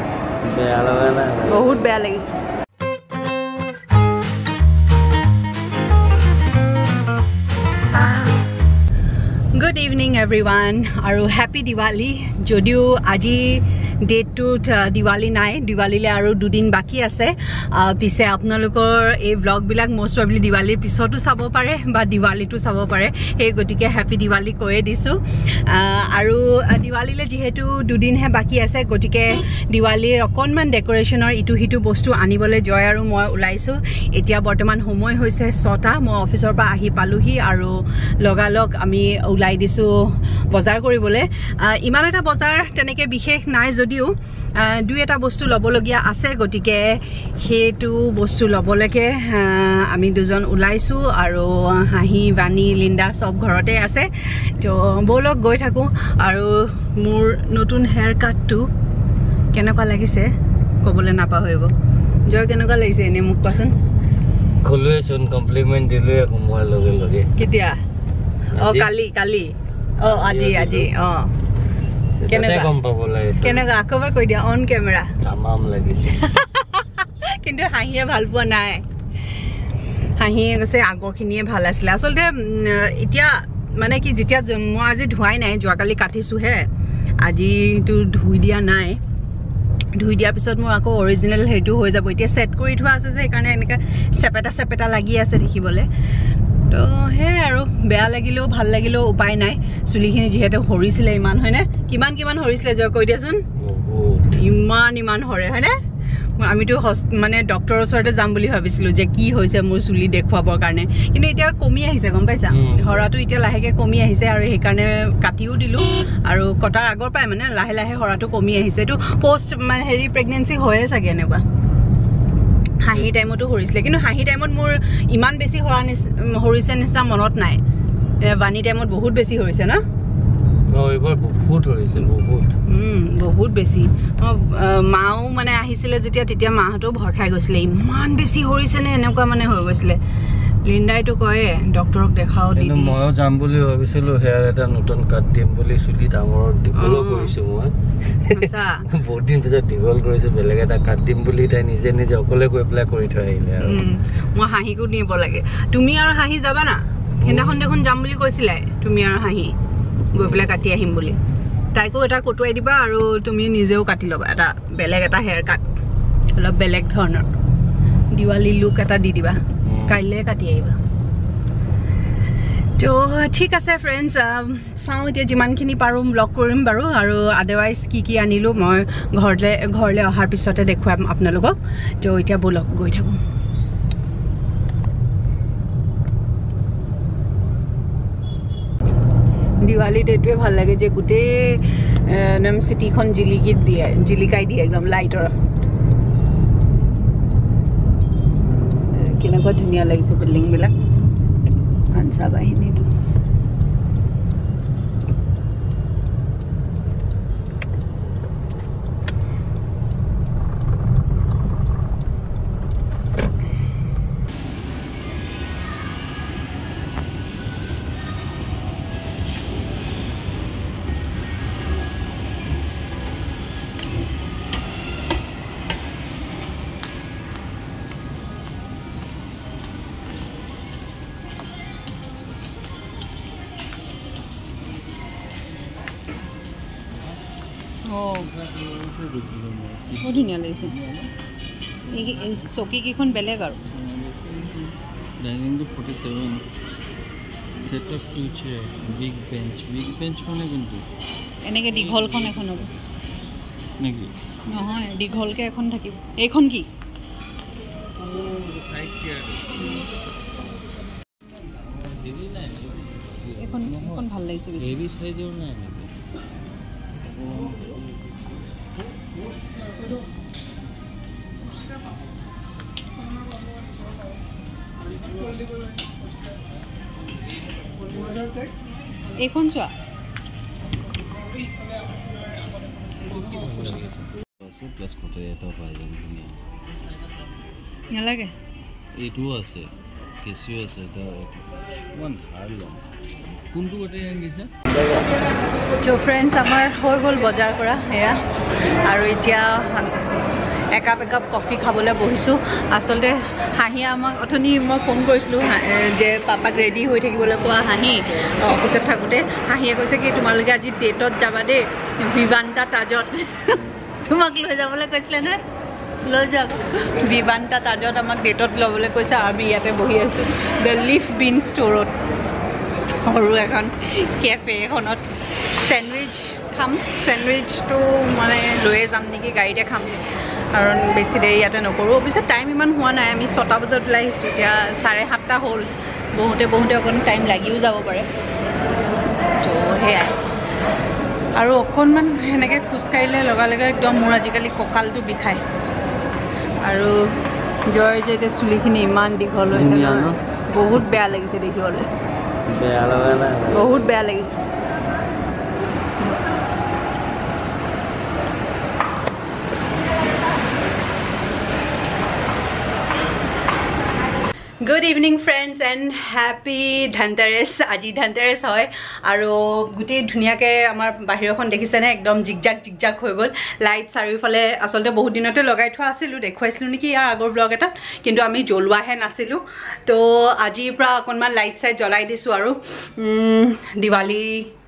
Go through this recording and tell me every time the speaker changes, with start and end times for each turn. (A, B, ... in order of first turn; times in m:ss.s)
0:00.5-0:01.9 A
0:01.5-0:02.3 B
0:07.9-0:08.4 B
0:09.5-0:39.9 B
0:40.5-0:58.7 B
0:59.5-1:00.3 B
1:00.8-1:01.7 B
1:02.3-1:03.8 B
1:04.6-1:07.3 A
1:07.4-1:07.8 B
1:08.6-1:11.3 B
1:08.6-1:08.9 A
1:10.1-1:10.9 A
1:12.2-1:13.7 A
1:12.3-1:12.7 B
1:13.4-1:15.2 B
1:15.2-1:16.3 A
1:16.2-1:18.9 B
1:20.2-1:26.7 B
1:27.2-1:29.0 B
1:30.0-1:35.9 B
1:36.7-1:43.5 B
1:43.6-1:44.4 A
1:44.3-1:45.8 B
1:46.4-2:01.4 B
1:52.5-1:53.1 A
2:02.8-2:07.6 B
2:08.2-2:09.8 B
2:10.7-2:12.5 A
2:12.7-2:20.0 B
2:20.6-2:23.0 B
2:22.6-2:33.8 A
2:26.8-2:27.3 B
2:28.3-2:28.9 B
2:33.6-2:39.6 B
2:37.2-2:37.7 A
2:40.1-2:41.2 B
2:40.2-2:40.7 A
2:41.7-2:45.6 B
2:46.4-2:47.3 B
2:48.1-2:50.8 B
2:49.6-2:50.0 A
2:52.8-3:03.2 B
3:09.6-3:15.4 B
3:18.9-3:20.8 B
3:21.9-3:22.9 B
3:57.9-3:58.3 B
3:58.3-4:01.1 A
4:00.0-4:00.8 B
4:01.9-4:03.6 B
4:03.7-4:06.4 A
4:07.6-4:10.8 A
4:11.4-4:12.7 B
4:11.9-4:12.4 A
4:13.8-4:14.1 A
4:14.5-4:16.7 B
4:18.0-4:19.7 A
4:21.7-4:24.0 A
4:23.4-4:24.8 B
4:24.6-4:25.9 A
4:27.1-4:27.9 A
4:39.2-4:39.7 B
4:43.0-4:46.4 A
4:47.9-4:48.4 B
4:48.9-4:52.8 A
4:53.5-4:54.5 A
4:55.8-4:58.2 B
4:58.8-4:59.9 B
5:00.7-5:15.4 B
5:16.0-5:21.9 B
5:22.8-5:25.1 B
5:25.6-5:38.1 B
5:39.4-5:40.2 B
5:41.4-5:45.4 B
5:46.6-5:47.1 B
5:47.7-5:51.9 B
5:49.5-5:50.2 A
5:52.5-5:53.8 A
5:53.5-5:54.4 B
6:04.6-6:24.5 B